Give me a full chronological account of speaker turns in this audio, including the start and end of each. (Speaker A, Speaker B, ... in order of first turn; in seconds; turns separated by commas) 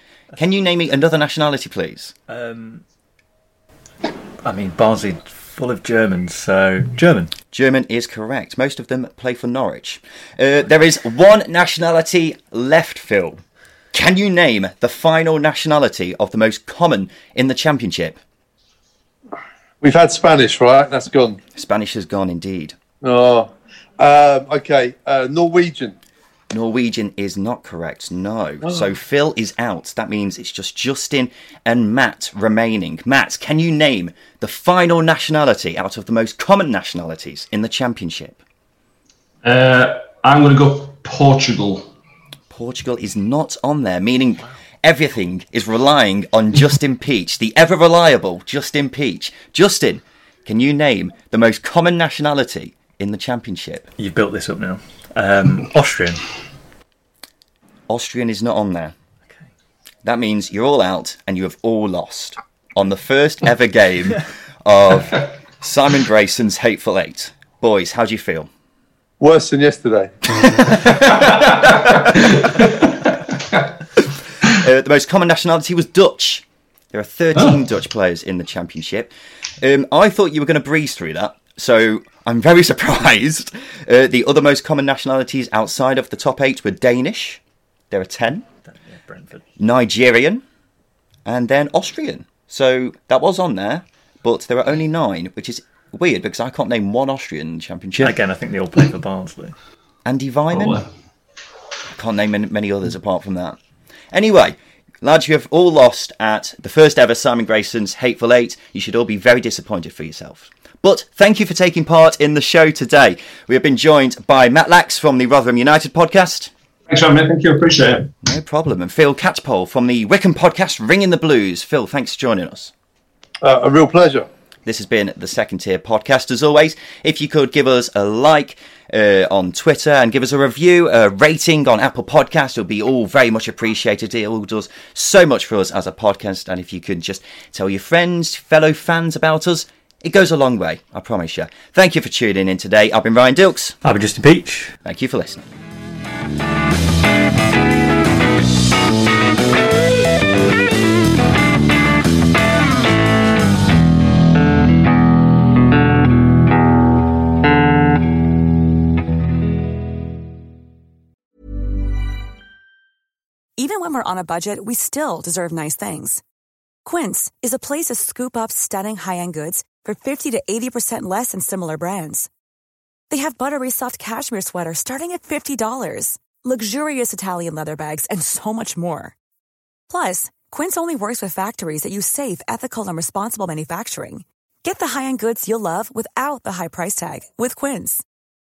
Speaker A: 0.3-2.1, Speaker B: 2.3-2.8, Speaker B: 4.4-7.3, Speaker A: 7.5-13.4, Speaker A: 13.9-18.2, Speaker C: 19.8-21.4, Speaker A: 21.6-22.8, Speaker C: 23.0-25.9, Speaker A: 26.5-38.4, Speaker D: 39.4-41.9, Speaker A: 42.5-53.9, Speaker B: 54.0-56.2, Speaker A: 57.9-58.9, Speaker A: 60.0-68.5, Speaker C: 69.2-70.8, Speaker A: 70.8-72.0, Speaker D: 72.1-72.8, Speaker A: 74.5-87.4, Speaker A: 87.9-88.5, Speaker B: 88.7-89.4, Speaker A: 89.6-90.4, Speaker A: 91.2-98.1, Speaker B: 98.0-99.5, Speaker A: 100.0-100.8, Speaker D: 100.5-100.9, Speaker A: 102.0-103.6, Speaker A: 104.1-116.5, Speaker D: 116.9-118.1, Speaker A: 118.2-122.7, Speaker C: 123.4-124.3, Speaker A: 124.7-143.8, Speaker B: 143.8-144.7, Speaker A: 144.8-145.4, Speaker E: 163.6-166.2, Speaker E: 166.8-172.3, Speaker E: 173.1-179.1, Speaker E: 179.9-188.0